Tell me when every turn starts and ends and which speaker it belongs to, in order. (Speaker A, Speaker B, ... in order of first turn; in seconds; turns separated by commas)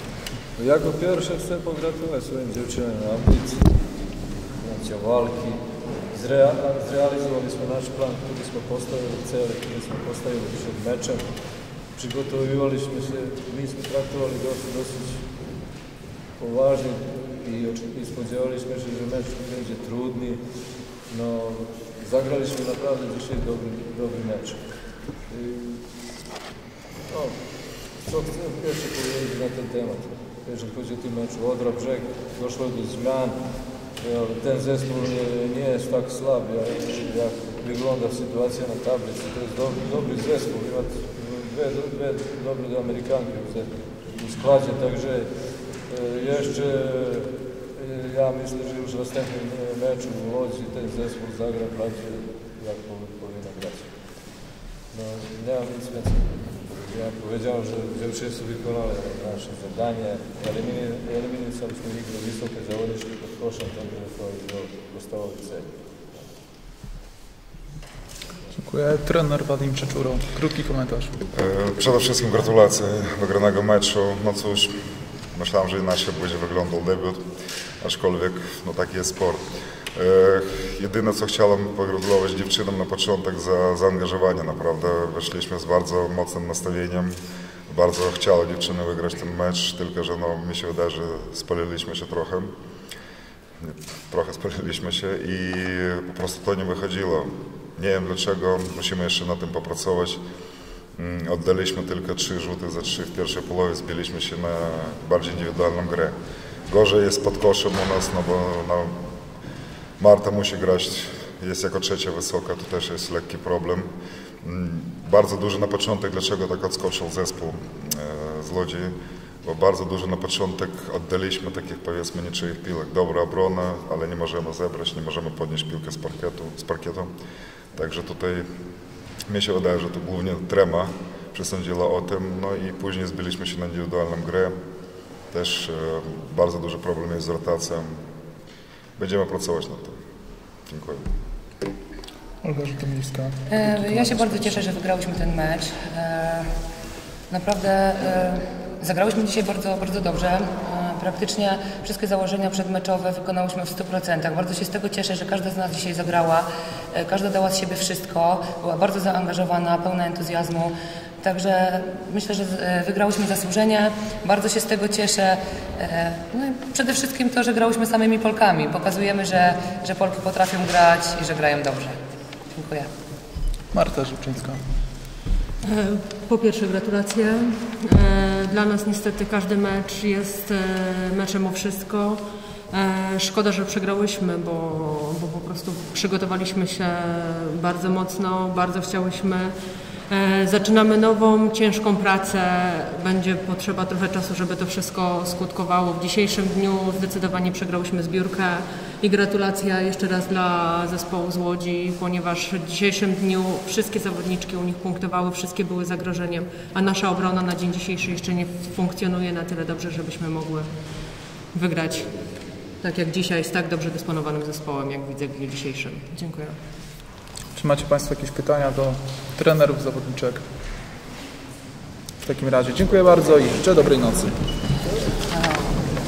Speaker A: 0.6-3.7, Speaker A: 4.6-5.6, Speaker A: 6.1-11.3, Speaker A: 11.9-15.3, Speaker A: 16.4-20.4, Speaker A: 21.1-24.6, Speaker A: 25.3-25.8, Speaker A: 27.1-27.4, Speaker A: 28.0-33.4, Speaker A: 34.0-45.3, Speaker A: 45.9-53.9, Speaker A: 54.9-66.2, Speaker B: 68.6-71.2, Speaker C: 71.3-74.8, Speaker C: 75.3-77.2, Speaker C: 77.8-79.4, Speaker C: 80.0-87.2, Speaker C: 87.7-92.5, Speaker C: 93.6-100.2, Speaker C: 101.0-106.2, Speaker C: 106.7-109.1, Speaker C: 110.0-113.9, Speaker C: 114.4-127.1, Speaker C: 127.7-128.5, Speaker C: 129.3-134.6, Speaker C: 135.3-138.0, Speaker C: 139.0-140.0, Speaker C: 140.7-141.0, Speaker B: 142.4-144.5, Speaker D: 143.5-146.5, Speaker D: 147.3-172.0, Speaker D: 172.5-172.9, Speaker B: 173.7-174.6, Speaker E: 175.6-189.6, Speaker E: 190.1-210.7, Speaker E: 211.5-212.1, Speaker E: 212.8-216.6, Speaker B: 217.6-220.4, Speaker B: 222.2-224.3, Speaker D: 225.3-225.8